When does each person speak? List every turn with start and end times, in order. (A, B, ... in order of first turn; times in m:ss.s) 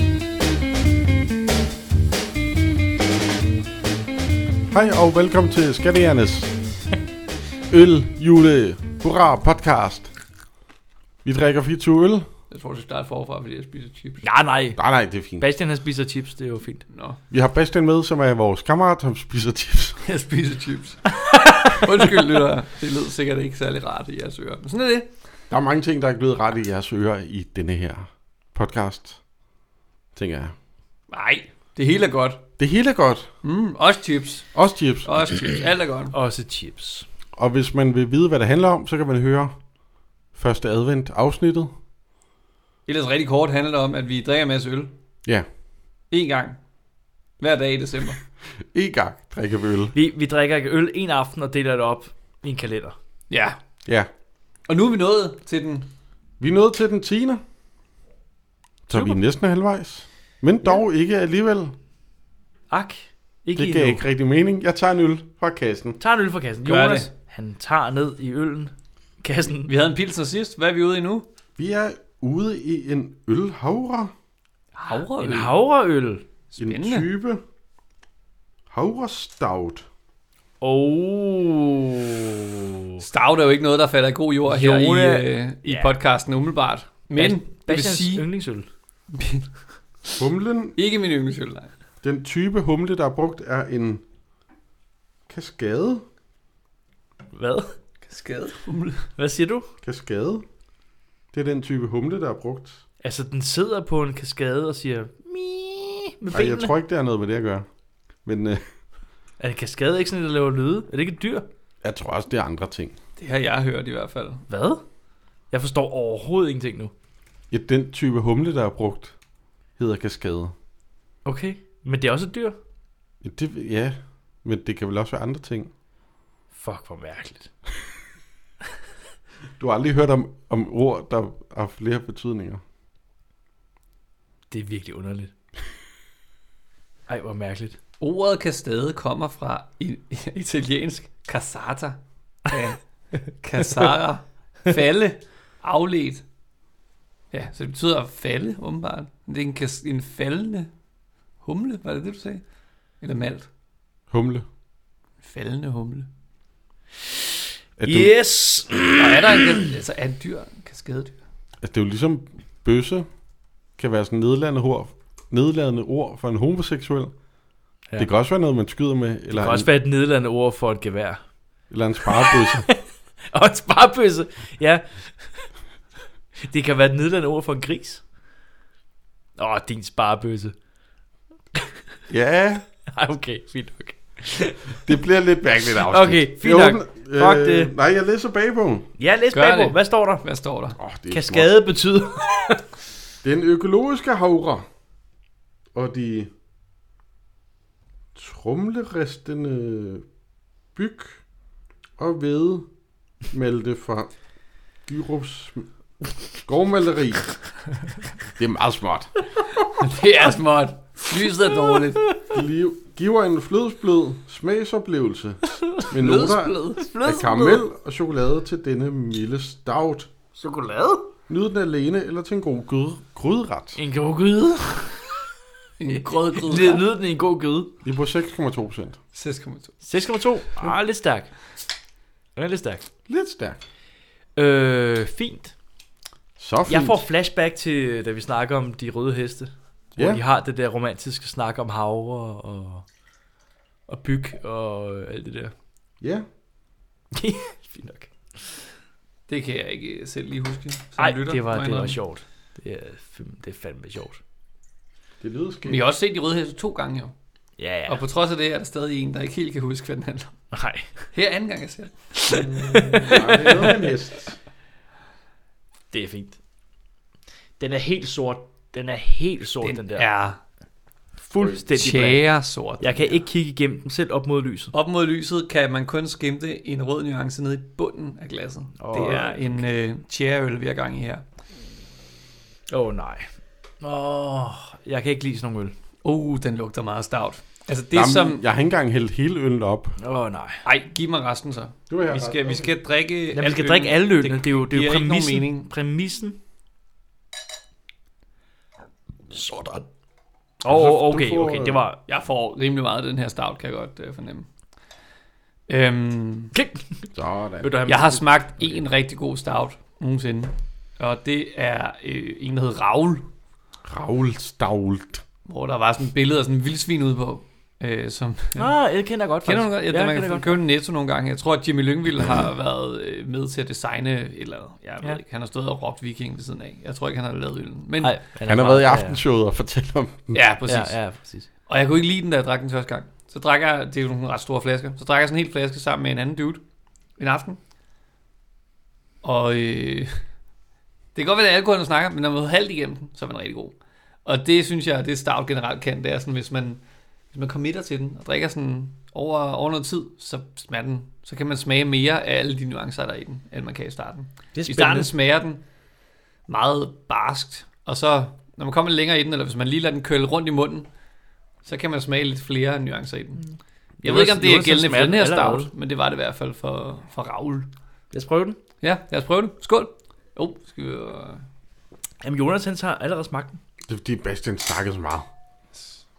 0:04.7-0:06.5 A
0:07.7-0:10.1 A
0:11.2-0:12.3 A
0:12.5-0:14.3 B
0:14.2-0:14.8 C
0:14.8-0:15.4 A
0:15.4-0:16.8 C
0:16.9-0:17.2 B
0:17.3-0:20.0 A
0:20.0-0:25.1 B
0:25.5-0:29.2 A
0:30.2-0:30.6 A
0:31.1-0:32.4 B
0:32.6-0:33.3 A
0:33.4-0:34.5 B
0:34.6-0:35.2 A
0:35.0-0:36.1 B
0:36.1-0:37.1 C
0:37.4-0:39.6 A
0:40.4-0:41.7 A
0:42.9-0:44.9 B
0:46.1-0:46.6 B
0:47.4-0:48.2 B
0:48.7-0:50.0 A
0:49.9-0:53.0 C
0:53.3-0:53.6 B
0:54.7-0:55.9 B
0:56.4-0:57.4 A
0:58.9-1:01.7 A
0:58.9-0:59.2 C
1:02.7-1:04.0 C
1:03.6-1:06.0 A
1:06.0-1:09.7 C
1:06.6-1:07.1 B
1:09.6-1:11.3 B
1:11.6-1:14.1 A
1:14.8-1:15.5 B
1:14.9-1:16.2 C
1:16.5-1:17.1 B
1:16.6-1:17.4 A
1:18.7-1:19.8 A
1:20.6-1:23.0 C
1:23.0-1:28.3 B
1:24.5-1:26.0 C
1:27.1-1:28.7 C
1:29.1-1:29.5 B
1:30.2-1:30.8 A
1:30.8-1:31.7 B
1:32.0-1:34.0 A
1:35.3-1:36.0 A
1:37.3-1:37.7 C
1:38.1-1:39.1 B
1:39.2-1:39.7 C
1:39.8-1:40.4 A
1:41.3-1:42.8 A
1:43.0-1:46.7 C
1:46.3-1:47.7 A
1:48.2-1:48.6 A
1:49.4-1:51.5 C
1:51.8-1:52.9 A
1:53.2-1:54.4 B
1:54.5-1:54.8 C
1:55.5-1:56.9 C
1:57.5-1:59.2 A
1:59.8-2:00.5 A
2:01.2-2:02.6 C
2:03.2-2:05.7 A
2:06.5-2:07.5 C
2:09.6-2:12.6 A
2:14.5-2:15.3 C
2:17.1-2:17.8 C
2:18.0-2:26.2 B
2:27.3-2:30.7 B
2:31.4-2:32.4 B
2:33.0-2:33.5 B
2:34.1-2:34.4 A
2:35.2-2:36.1 B
2:37.8-2:38.1 A
2:37.8-2:39.6 C
2:39.0-2:41.2 B
2:41.6-2:43.1 A
2:43.8-2:47.1 A
2:48.0-2:49.7 A
2:49.3-2:51.2 C
2:51.7-2:52.7 A
2:52.2-2:52.8 C
2:53.3-2:55.5 C
2:56.4-2:58.0 C
2:59.4-3:00.5 C
3:02.1-3:02.6 A
3:02.9-3:04.8 C
3:04.9-3:08.9 A
3:05.7-3:07.7 C
3:09.0-3:10.3 C
3:09.3-3:10.8 B
3:10.8-3:11.5 A
3:11.1-3:12.6 C
3:13.2-3:14.6 A
3:15.7-3:16.3 A
3:18.2-3:20.0 A
3:20.8-3:21.2 A
3:22.0-3:22.7 A
3:23.3-3:24.1 A
3:24.9-3:25.7 A
3:26.4-3:27.3 A
3:28.4-3:29.2 A
3:29.7-3:32.0 B
3:32.3-3:40.1 A
3:35.9-3:37.0 B
3:36.9-3:37.7 C
3:40.4-3:41.1 C
3:41.3-3:43.8 A
3:43.8-3:45.1 C
3:45.8-3:46.9 B
3:45.9-3:47.7 C
3:47.8-3:49.0 A
3:49.1-3:49.7 B
3:49.8-3:51.3 C
3:52.4-3:52.8 C
3:53.1-3:53.6 A
3:54.4-3:55.5 C
3:56.4-3:57.0 A
3:56.7-4:02.8 C
4:00.0-4:00.2 A
4:03.9-4:05.5 C
4:07.1-4:08.1 C
4:09.3-4:12.0 B
4:11.0-4:14.2 C
4:15.2-4:15.8 A
4:15.6-4:17.1 B
4:17.6-4:18.0 C
4:17.9-4:20.4 B
4:20.5-4:20.9 C
4:21.1-4:23.9 B
4:22.2-4:23.4 C
4:22.4-4:24.4 A
4:25.9-4:26.4 C
4:27.6-4:30.1 C
4:29.6-4:30.4 B
4:31.2-4:32.3 C
4:31.7-4:33.2 B
4:32.8-4:34.7 C
4:34.7-4:41.2 B
4:38.8-4:39.4 C
4:42.7-4:43.3 C
4:43.8-4:45.7 C
4:46.0-4:48.4 B
4:47.9-4:50.0 A
4:50.0-4:50.6 C
4:50.6-4:55.7 B
4:51.9-4:52.7 A
4:53.3-4:56.4 C
4:59.3-4:59.8 C
5:00.6-5:02.0 C
5:00.7-5:01.8 A
5:02.1-5:04.5 B
5:05.7-5:06.5 B
5:06.5-5:07.1 C
5:07.2-5:07.7 A
5:07.6-5:08.8 C
5:07.9-5:13.2 B
5:13.9-5:15.2 A
5:15.5-5:18.7 B
5:18.6-5:20.6 C
5:19.4-5:28.2 B
5:28.0-5:29.2 C
5:28.5-5:30.4 A
5:30.3-5:31.0 B
5:30.7-5:31.5 C
5:31.7-5:36.6 B
5:37.2-5:37.6 B
5:39.2-5:40.1 B
5:41.2-5:46.8 B
5:47.3-5:55.6 B
5:54.6-5:55.1 C
5:56.5-6:00.9 B
6:01.6-6:03.4 B
6:04.0-6:07.7 B
6:04.0-6:05.7 C
6:08.1-6:08.6 C
6:08.8-6:11.4 B
6:12.2-6:13.6 C
6:13.9-6:15.3 A